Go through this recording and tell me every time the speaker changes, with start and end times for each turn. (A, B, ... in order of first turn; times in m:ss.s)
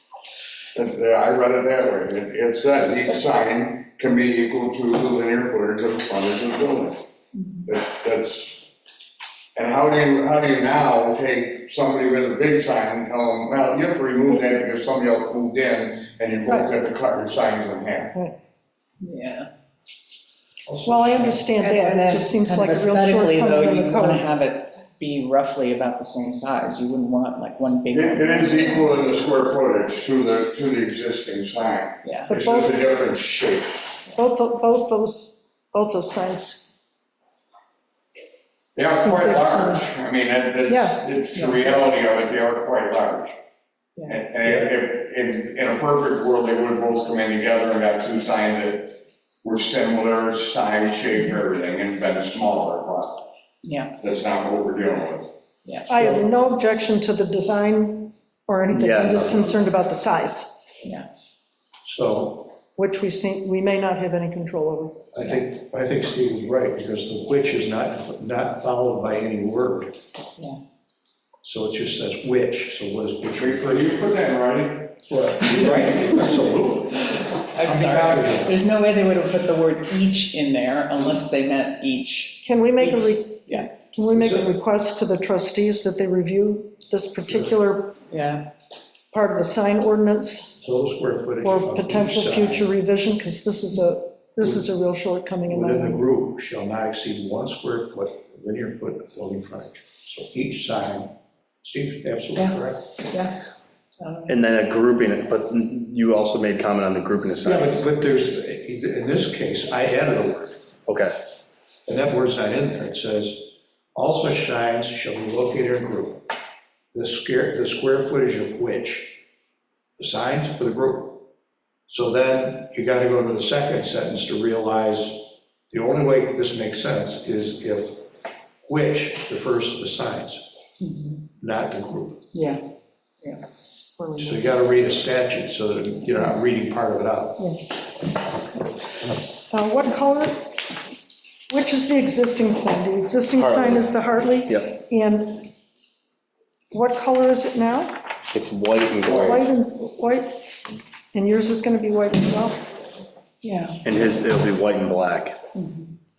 0:00.7-0:07.0 A
0:07.6-0:08.7 A
0:09.6-0:18.1 A
0:19.0-0:19.5 B
0:20.6-0:21.5 C
0:20.8-0:24.2 D
0:21.6-0:29.0 B
0:27.9-0:34.0 A
0:32.0-0:32.3 B
0:32.3-0:32.8 D
0:34.2-0:36.7 D
0:38.7-0:43.4 A
0:38.9-0:39.9 D
0:40.6-0:41.0 D
0:41.3-0:41.8 B
0:44.1-0:53.2 A
0:44.4-0:44.7 C
0:53.6-0:53.9 B
0:54.0-0:55.3 A
0:55.9-1:00.6 D
0:55.9-0:56.2 C
0:58.7-0:59.6 E
1:01.8-1:02.5 C
1:02.8-1:05.1 D
1:05.1-1:10.0 C
1:11.4-1:14.0 C
1:13.4-1:15.0 A
1:15.0-1:18.6 C
1:15.4-1:16.5 B
1:17.1-1:23.7 B
1:22.4-1:28.0 D
1:24.1-1:24.5 C
1:28.1-1:28.5 B
1:29.1-1:30.6 D
1:30.6-1:32.7 C
1:31.4-1:36.0 D
1:34.4-1:34.7 C
1:35.5-1:42.9 C
1:43.1-1:43.3 B
1:44.0-1:44.4 B
1:44.3-1:47.8 E
1:47.4-1:50.6 C
1:50.9-1:51.1 E
1:51.8-1:56.2 C
1:56.9-1:59.2 C
2:00.0-2:01.2 C
2:01.9-2:08.0 C
2:08.6-2:10.6 C
2:10.8-2:11.2 B
2:11.4-2:12.3 C
2:12.3-2:12.6 B
2:14.0-2:14.4 D
2:14.2-2:17.5 C
2:19.5-2:20.5 D
2:21.5-2:25.5 D
2:23.4-2:23.8 A
2:26.7-2:28.0 D
2:28.3-2:29.4 E
2:29.0-2:30.4 D
2:29.1-2:29.3 A
2:31.1-2:32.7 D
2:33.4-2:33.8 B
2:33.8-2:35.4 E
2:35.5-2:35.9 B